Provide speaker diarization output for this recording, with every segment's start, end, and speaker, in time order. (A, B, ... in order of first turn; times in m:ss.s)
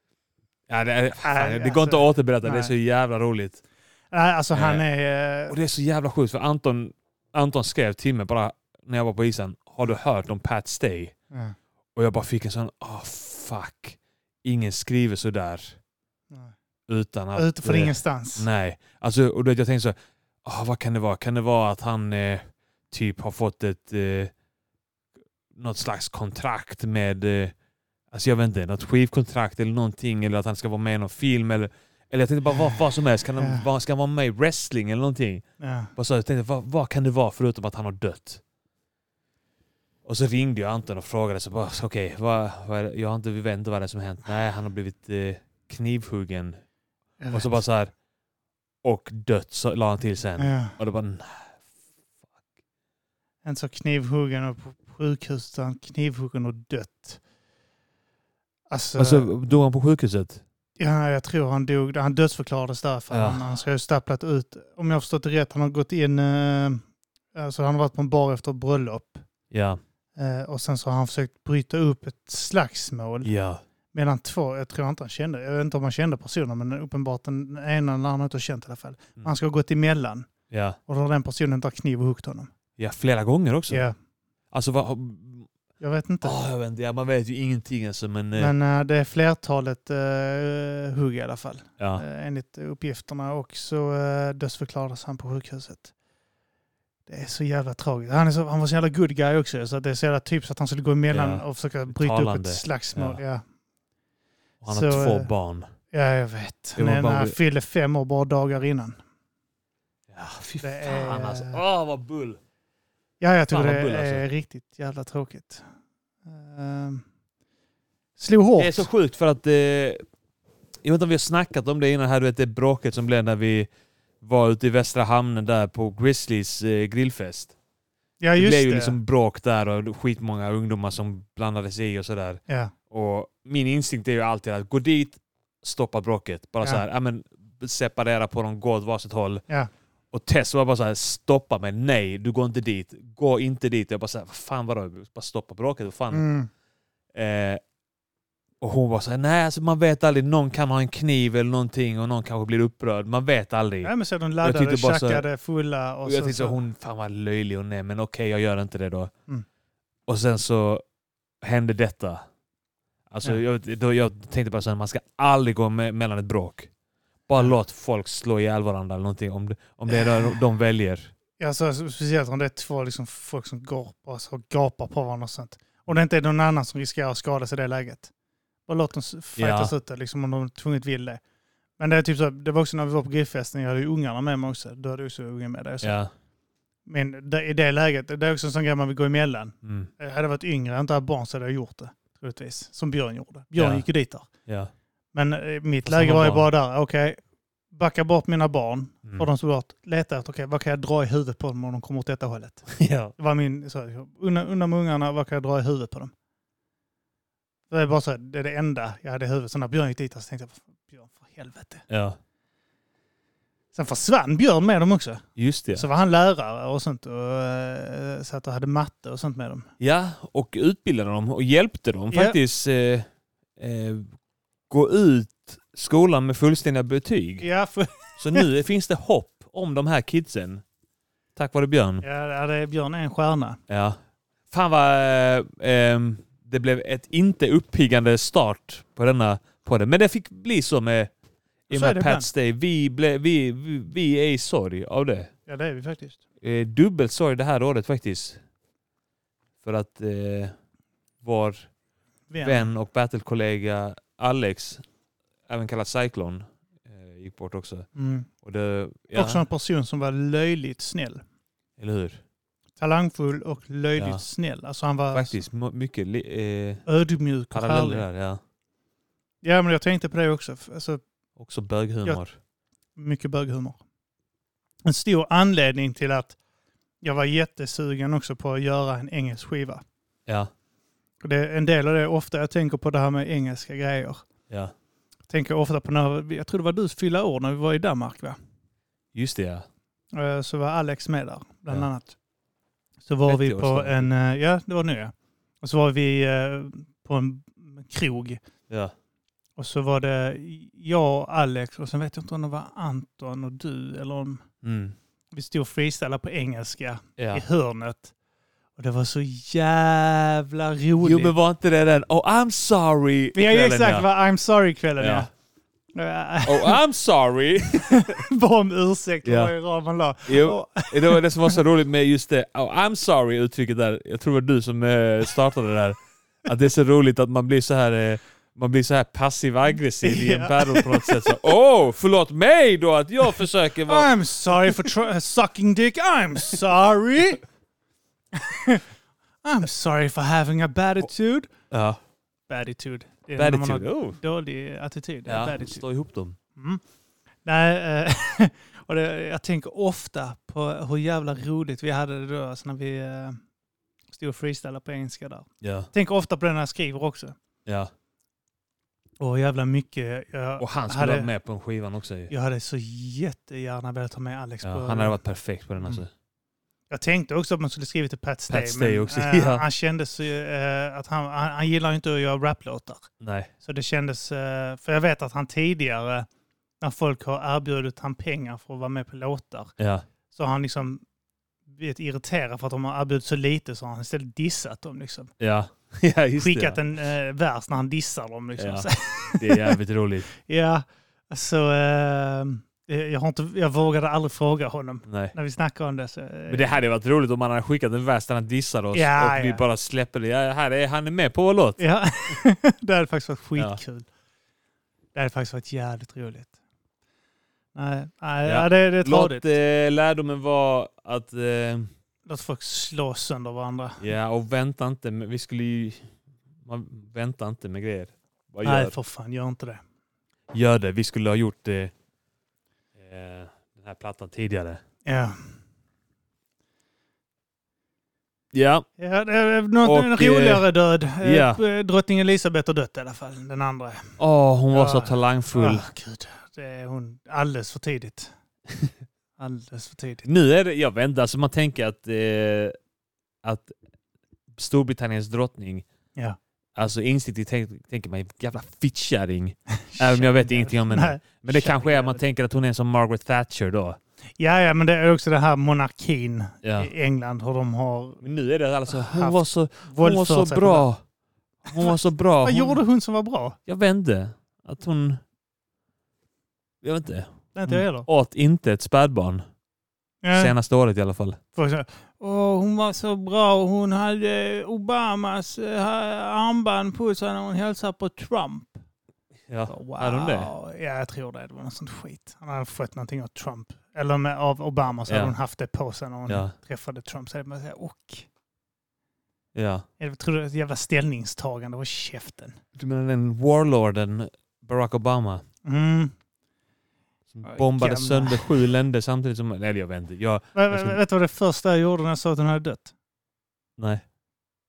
0:00.7-0:03.6 A
0:01.2-0:02.7 B
0:04.1-0:05.5 B
0:04.5-0:04.8 A
0:05.5-0:11.1 A
0:12.0-0:15.8 A
0:16.9-0:24.3 A
0:17.3-0:18.4 B
0:25.5-0:27.5 A
0:28.1-0:35.4 A
0:32.5-0:32.8 B
0:33.4-0:33.6 B
0:35.6-0:35.9 B
0:36.0-0:38.4 A
0:40.0-0:46.6 A
0:47.2-0:47.6 B
0:47.3-0:47.9 A
0:48.8-0:51.6 A
0:50.4-0:50.7 B
0:53.4-0:57.2 B
0:58.7-0:59.3 B
0:59.0-1:00.4 A
1:00.8-1:06.8 B
1:03.1-1:03.4 A
1:07.3-1:09.2 B
1:09.5-1:09.8 A
1:10.2-1:13.3 B
1:13.2-1:13.6 A
1:13.9-1:20.3 B
1:20.5-1:20.8 A
1:20.9-1:22.5 B
1:22.8-1:23.8 A
1:23.7-1:23.9 B
1:24.5-1:25.5 A
1:25.8-1:26.4 B
1:26.2-1:28.5 A
1:28.4-1:35.9 B
1:31.8-1:32.0 A
1:37.1-1:43.4 B
1:41.1-1:43.2 A
1:44.6-1:45.7 A
1:44.7-1:45.3 B
1:45.9-1:49.0 B
1:46.8-1:47.3 A
1:50.1-1:52.4 A
1:50.6-1:51.6 B
1:53.2-1:55.6 B
1:53.5-1:54.2 A
1:56.3-1:57.0 B
1:58.2-1:58.9 B
1:58.6-2:00.0 A
2:00.8-2:03.7 A
2:04.2-2:07.5 A
2:08.2-2:09.0 B
2:08.4-2:19.4 A
2:12.5-2:12.7 B
2:20.1-2:26.2 A
2:26.1-2:26.5 B
2:27.1-2:27.6 A
2:28.6-2:33.9 A
2:33.8-2:36.6 B
2:34.4-2:35.2 A
2:36.0-2:39.1 A
2:40.1-2:40.8 A
2:41.4-2:42.2 A
2:43.1-2:46.7 A
2:47.3-2:51.1 A
2:49.9-2:50.4 B
2:51.4-2:58.1 B
2:58.7-3:01.2 B
2:59.4-2:59.7 A
3:01.8-3:06.0 B
3:05.8-3:06.1 A
3:06.9-3:14.3 B
3:09.6-3:09.9 A
3:13.6-3:13.8 A
3:14.4-3:14.7 A
3:15.1-3:17.2 B
3:15.8-3:16.5 A
3:17.7-3:26.1 B
3:22.7-3:23.1 A
3:27.7-3:31.8 B
3:31.9-3:32.2 A
3:33.7-3:39.7 B
3:35.4-3:35.8 A
3:39.8-3:44.1 A
3:42.1-3:42.4 B
3:44.7-3:47.5 A
3:47.4-3:48.5 B
3:48.2-3:50.6 A
3:51.4-3:52.0 A
3:52.0-3:53.6 B
3:53.7-3:54.0 A
3:54.5-4:01.1 A
4:01.7-4:02.3 B
4:01.7-4:05.3 A
4:05.5-4:06.2 B
4:06.4-4:08.4 A
4:09.6-4:10.5 A
4:11.2-4:11.7 A
4:12.3-4:12.7 B
4:12.4-4:14.8 A
4:15.5-4:17.9 A
4:18.0-4:18.3 B
4:18.4-4:19.4 A
4:19.1-4:21.2 B
4:21.8-4:22.2 A
4:22.8-4:25.4 B
4:25.1-4:26.8 A
4:26.8-4:28.0 B
4:27.5-4:28.4 A
4:29.4-4:31.0 B
4:31.4-4:32.3 A
4:33.0-4:33.8 B
4:34.8-4:36.4 B
4:37.0-4:39.8 B
4:41.2-4:44.3 B
4:45.3-4:48.4 B
4:49.1-4:49.6 A
4:50.1-4:52.2 B
4:53.0-4:58.4 B
4:53.3-4:54.1 A
4:59.6-5:04.4 B
5:04.6-5:04.9 A
5:05.3-5:08.1 B
5:07.2-5:07.4 A
5:08.8-5:11.3 B
5:11.0-5:14.0 A
5:13.3-5:15.3 B
5:15.0-5:15.3 A
5:15.9-5:16.8 B
5:16.4-5:18.2 A
5:17.7-5:21.6 B
5:19.2-5:19.5 A
5:20.3-5:34.9 A
5:30.0-5:31.4 B
5:33.9-5:37.4 B
5:38.3-5:38.8 B
5:39.4-5:41.5 B
5:41.7-5:42.0 A
5:42.5-5:45.8 B
5:43.4-5:44.2 A
5:45.3-5:46.4 A
5:47.4-5:53.4 B
5:54.1-5:57.3 B
5:55.6-5:55.9 A
5:57.6-5:57.9 A
5:59.2-6:01.3 B
6:00.6-6:02.3 A
6:02.3-6:05.2 B
6:04.6-6:06.1 A
6:06.9-6:13.1 B
6:08.5-6:09.6 A
6:13.2-6:13.5 A
6:13.6-6:16.3 B
6:16.8-6:19.7 B
6:19.8-6:20.0 A
6:20.3-6:21.0 B
6:21.7-6:25.3 B
6:25.4-6:26.8 A
6:26.4-6:29.8 B
6:28.6-6:30.3 A
6:30.3-6:36.8 B
6:35.0-6:35.3 A
6:36.5-6:41.8 A
6:38.9-6:39.6 B
6:41.8-6:44.1 B
6:45.1-6:46.5 B
6:47.7-6:49.5 B
6:48.4-6:51.9 A
6:52.2-6:54.0 B
6:54.0-6:56.1 A
6:56.6-6:58.9 A
6:58.6-6:59.8 B
7:00.5-7:01.9 A
7:03.0-7:04.8 A
7:05.0-7:05.4 B
7:08.5-7:08.8 A
7:09.0-7:14.1 B
7:09.8-7:10.6 A
7:11.2-7:11.6 A
7:14.2-7:15.9 A
7:14.7-7:18.3 B
7:19.4-7:20.2 B
7:20.2-7:22.7 A
7:23.4-7:23.7 A
7:24.5-7:25.8 A
7:26.8-7:34.0 A
7:29.7-7:32.2 B
7:34.4-7:38.2 B
7:36.6-7:36.9 A
7:38.2-7:41.0 A
7:38.9-7:40.9 B
7:41.6-7:42.8 A
7:41.7-7:43.6 B
7:43.7-7:45.2 A
7:46.8-7:49.4 A
7:47.5-7:48.1 B
7:50.2-7:50.5 B
7:50.3-7:51.4 A
7:51.6-7:58.8 B
7:59.5-8:00.5 A
7:59.7-8:08.2 B
8:05.1-8:05.3 A
8:06.3-8:06.5 A
8:09.5-8:09.8 A
8:10.0-8:12.6 B
8:12.8-8:15.4 A
8:15.6-8:16.1 B
8:17.3-8:21.0 A
8:17.4-8:18.6 B
8:20.5-8:22.9 B
8:23.8-8:24.0 A